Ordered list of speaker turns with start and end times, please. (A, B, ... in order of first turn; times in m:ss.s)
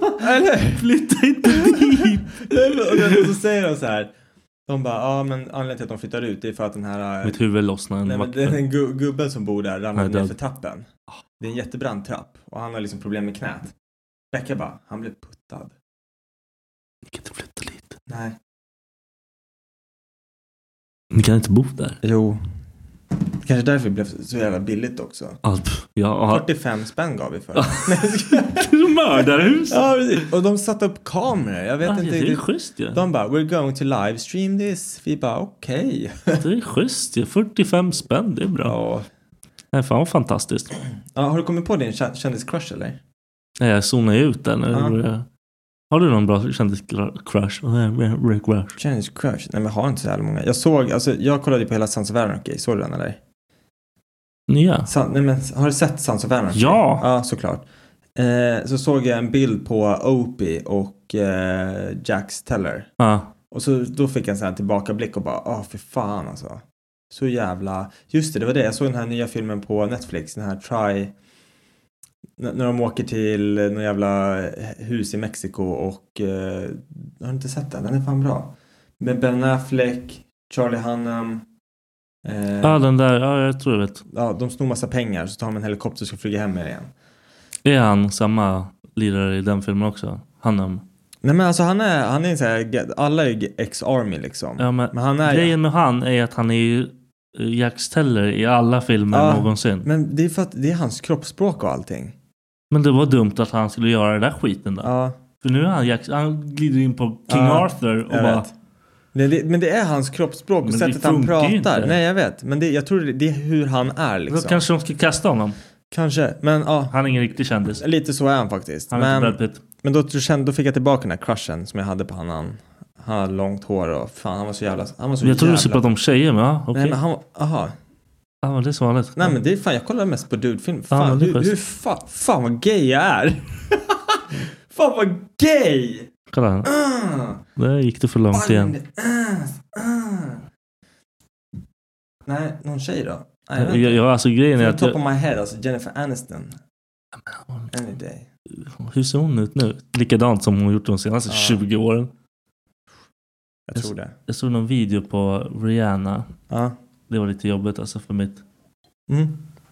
0:00.2-0:00.9 A
0:00.7-0:03.2 B
0:01.4-0:04.1 A
0:04.7-0:07.4 A
0:07.2-0:08.7 B
0:08.0-0:10.9 A
0:10.0-0:10.3 B
0:11.4-0:13.7 A
0:14.3-0:15.7 A
0:17.1-0:18.0 B
0:18.1-0:18.4 A
0:21.1-0:22.0 B
0:22.0-0:22.4 A
0:23.3-0:25.4 A
0:25.4-0:26.4 B
0:26.3-0:28.7 A
0:27.6-0:30.2 B
0:29.7-0:36.4 A
0:31.8-0:33.0 B
0:36.4-0:38.8 B
0:38.6-0:39.1 A
0:39.7-0:40.7 B
0:41.1-0:43.0 A
0:43.6-0:45.2 B
0:44.7-0:45.0 A
0:45.9-0:48.8 B
0:48.8-0:53.2 A
0:54.5-0:54.9 B
0:54.9-0:57.6 A
0:56.5-0:57.0 B
0:58.2-1:02.9 A
1:03.0-1:03.3 B
1:03.5-1:11.1 A
1:12.4-1:21.4 A
1:22.2-1:22.8 A
1:22.6-1:24.0 B
1:24.1-1:26.9 A
1:27.6-1:30.8 B
1:31.2-1:35.6 A
1:34.6-1:39.9 B
1:39.1-1:42.1 A
1:42.7-1:44.9 B
1:44.8-1:45.2 A
1:45.4-1:48.5 B
1:47.3-1:48.5 A
1:49.1-1:54.6 A
1:50.6-1:52.0 B
1:54.3-1:55.6 B
1:55.9-1:57.0 A
1:56.9-1:57.8 B
1:57.8-2:05.9 A
1:58.9-1:59.6 B
2:05.2-2:07.0 B
2:06.7-2:07.7 A
2:08.4-2:09.4 B
2:09.2-2:16.1 A
2:10.9-2:11.5 B
2:16.3-2:16.7 B
2:16.6-2:17.4 A
2:17.6-2:18.7 B
2:18.3-2:20.4 A
2:22.2-2:26.6 A
2:23.6-2:25.0 B
2:27.3-2:27.7 B
2:27.7-2:28.3 A
2:28.6-2:32.1 B
2:31.3-2:31.6 A
2:33.7-2:34.1 A
2:33.8-2:36.3 B
2:36.5-2:36.8 A
2:37.1-2:38.4 B
2:39.1-2:39.4 A